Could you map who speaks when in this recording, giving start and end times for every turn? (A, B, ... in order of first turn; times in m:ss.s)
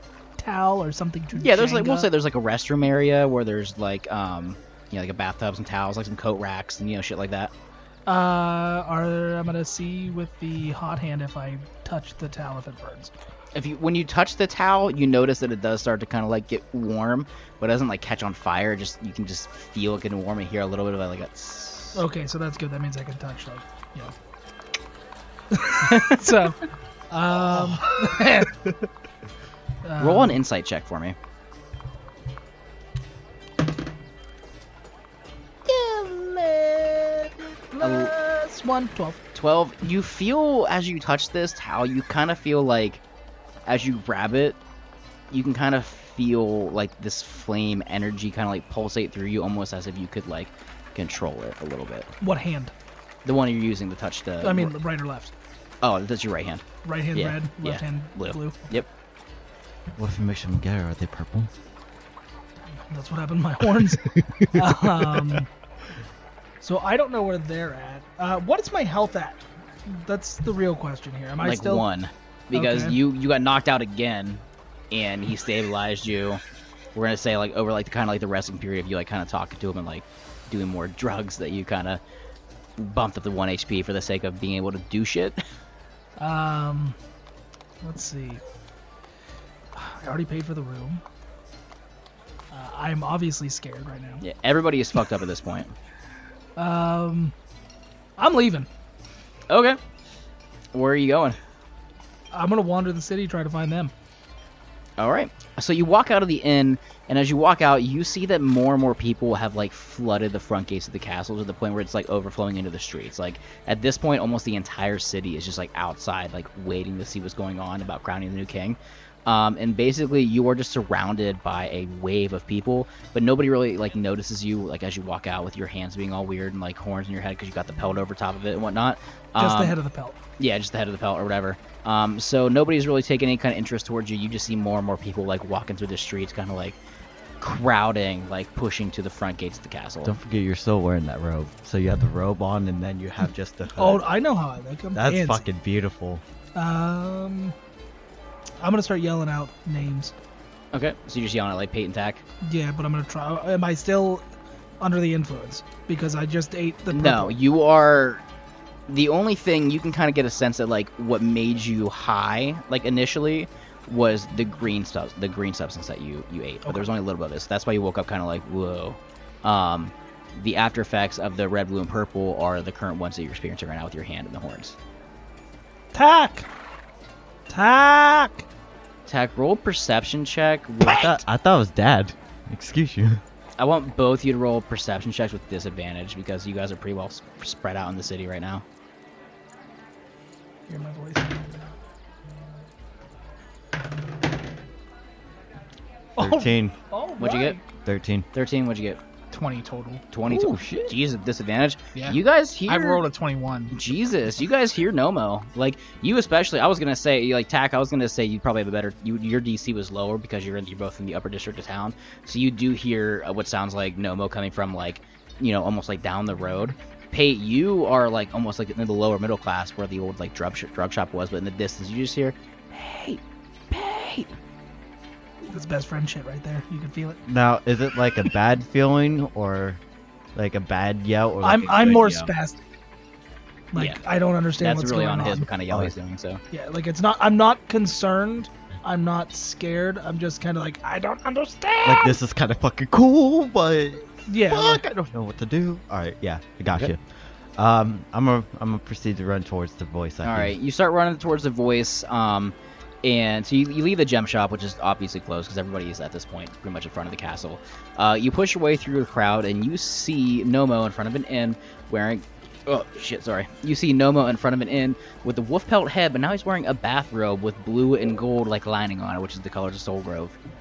0:00.4-0:02.1 A
0:01.4-0:07.5 B
0:08.1-0:13.1 A
0:13.5-0:22.0 B
0:21.9-0:24.1 A
0:25.5-0:26.6 A
0:27.1-0:28.6 A
0:29.8-0:30.4 A
0:30.0-0:31.2 B
0:35.7-0:37.0 B
0:37.7-0:39.2 A
0:37.8-0:38.1 B
0:39.3-0:43.0 B
0:43.6-0:44.6 B
0:45.3-0:52.1 B
0:52.2-0:52.7 A
0:53.2-0:54.7 B
0:54.4-0:55.3 A
0:55.8-0:58.9 B
0:56.8-0:58.6 A
1:00.0-1:01.5 C
1:02.8-1:05.5 A
1:04.2-1:05.2 C
1:06.6-1:11.9 A
1:11.4-1:16.4 B
1:12.5-1:13.0 A
1:16.9-1:22.0 B
1:22.8-1:25.4 B
1:26.2-1:27.0 A
1:27.8-1:28.4 A
1:29.7-1:31.0 A
1:32.5-1:34.2 A
1:34.2-1:35.7 B
1:36.6-1:37.3 A
1:38.2-1:38.7 A
1:39.5-1:39.8 B
1:40.7-1:41.4 B
1:42.3-1:43.9 A
1:45.0-2:09.7 B
2:09.4-2:10.2 A
2:10.4-2:16.8 B
2:17.4-2:20.1 B
2:20.0-2:24.0 C
2:23.8-2:25.4 A
2:24.9-2:26.2 C
2:26.6-2:27.5 A
2:28.6-2:30.1 A
2:30.7-2:32.2 B
2:32.4-2:34.2 A
2:34.8-2:37.4 A
2:36.9-2:38.2 B
2:38.9-2:54.8 B
2:55.9-2:56.5 A
2:57.5-2:58.4 A
2:59.1-3:01.2 B
3:00.8-3:03.2 C
3:03.6-3:08.6 B
3:10.7-3:11.3 A
3:16.2-3:17.6 A
3:16.2-3:16.7 C
3:17.2-3:17.6 B
3:17.8-3:18.3 C
3:18.3-3:19.0 B
3:19.3-3:20.0 D
3:20.1-3:23.0 B
3:20.2-3:21.0 C
3:21.9-3:23.7 D
3:23.7-3:44.3 B
3:45.5-3:47.2 A
3:47.2-3:49.8 C
3:50.3-3:52.3 C
3:51.4-3:52.6 A
3:53.7-3:55.5 A
3:54.6-3:56.4 B
3:56.5-4:02.2 A
4:01.8-4:10.5 C
4:04.2-4:04.8 A
4:10.2-4:30.4 B